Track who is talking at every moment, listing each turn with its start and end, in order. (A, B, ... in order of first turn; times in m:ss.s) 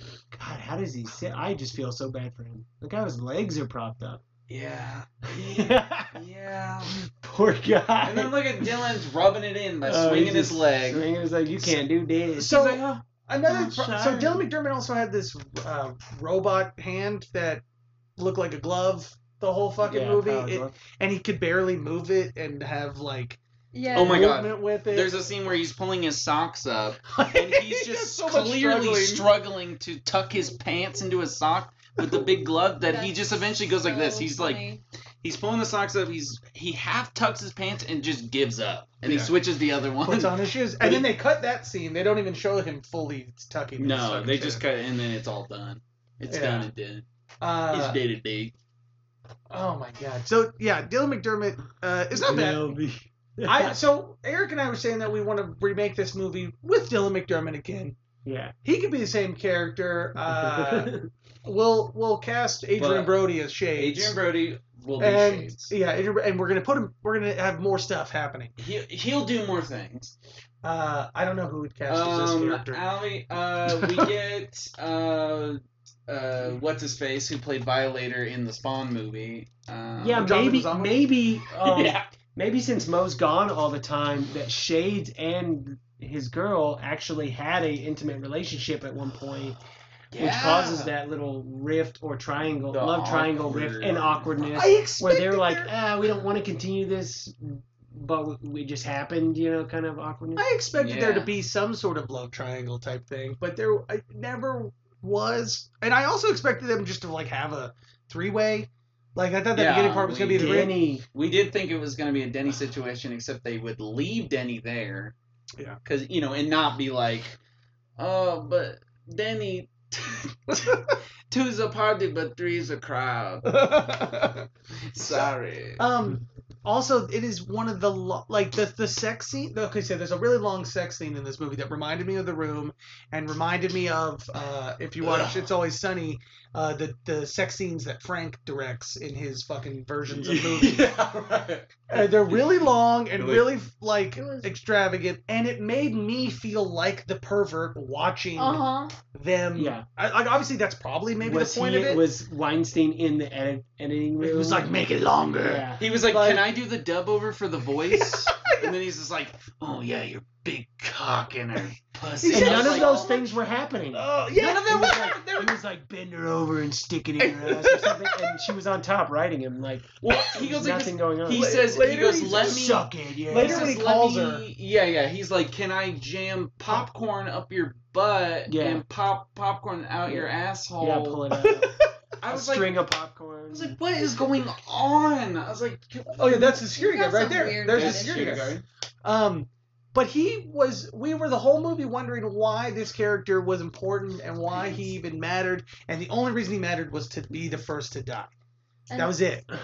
0:00.3-0:04.2 A
0:04.5-0:07.0 B
0:05.3-0:06.2 A
0:07.0-0:08.9 A
0:08.0-0:11.0 B
0:09.8-0:12.6 A
0:12.4-0:14.2 B
0:12.4-0:17.6 C
0:13.5-0:14.4 A
0:18.2-0:23.4 C
0:19.8-0:20.8 A
0:23.7-0:24.4 D
0:23.9-0:25.2 C
0:23.9-0:34.7 B
0:27.1-0:29.3 C
0:32.8-0:34.8 D
0:35.2-0:41.1 B
0:39.0-0:39.3 C
0:40.0-0:44.6 C
0:43.8-0:47.0 B
0:46.3-0:46.7 C
0:47.4-0:48.0 C
0:47.7-0:48.5 B
0:49.5-0:52.8 C
0:52.2-0:53.8 A
0:53.4-0:58.0 C
0:58.2-0:58.6 A
0:58.6-1:04.2 C
1:00.3-1:01.1 A
1:02.8-1:05.7 B
1:05.0-1:08.5 C
1:08.6-1:10.1 B
1:10.6-1:12.8 C
1:11.9-1:20.3 B
1:13.7-1:14.1 C
1:20.0-1:29.6 A
1:20.2-1:21.1 C
1:21.6-1:22.1 B
1:30.1-1:30.9 B
1:30.2-1:40.5 A
1:32.7-1:34.6 B
1:34.6-1:35.7 C
1:40.4-1:50.8 C
1:40.7-1:41.3 B
1:49.5-1:55.2 B
1:50.3-1:51.0 A
1:55.8-1:57.4 B
1:58.0-2:03.9 B
2:03.4-2:04.5 C
2:04.9-2:05.8 B
2:05.0-2:21.0 C
2:15.0-2:15.5 B
2:20.1-2:22.5 B
2:21.9-2:32.1 C
2:23.2-2:23.6 B
2:24.2-2:24.5 D
2:28.4-2:29.0 D
2:29.6-2:29.9 A
2:31.2-2:34.7 A
2:34.2-2:36.5 C
2:35.4-2:35.8 A
2:35.8-2:43.2 B
2:37.9-2:38.7 C
2:42.2-2:43.3 C
2:42.3-2:51.6 A
2:43.9-2:45.5 C
2:44.4-2:45.1 B
2:47.2-2:48.4 C
2:50.0-3:01.3 B
2:51.3-2:54.5 C
2:52.2-2:53.8 A
2:58.5-2:58.8 A
3:00.1-3:01.7 A
3:01.6-3:01.9 C
3:02.2-3:02.8 B
3:02.3-3:03.8 A
3:03.5-3:06.5 B
3:06.2-3:18.3 C
3:06.3-3:08.5 D
3:07.7-3:08.6 B
3:14.5-3:14.9 B
3:19.0-3:19.5 C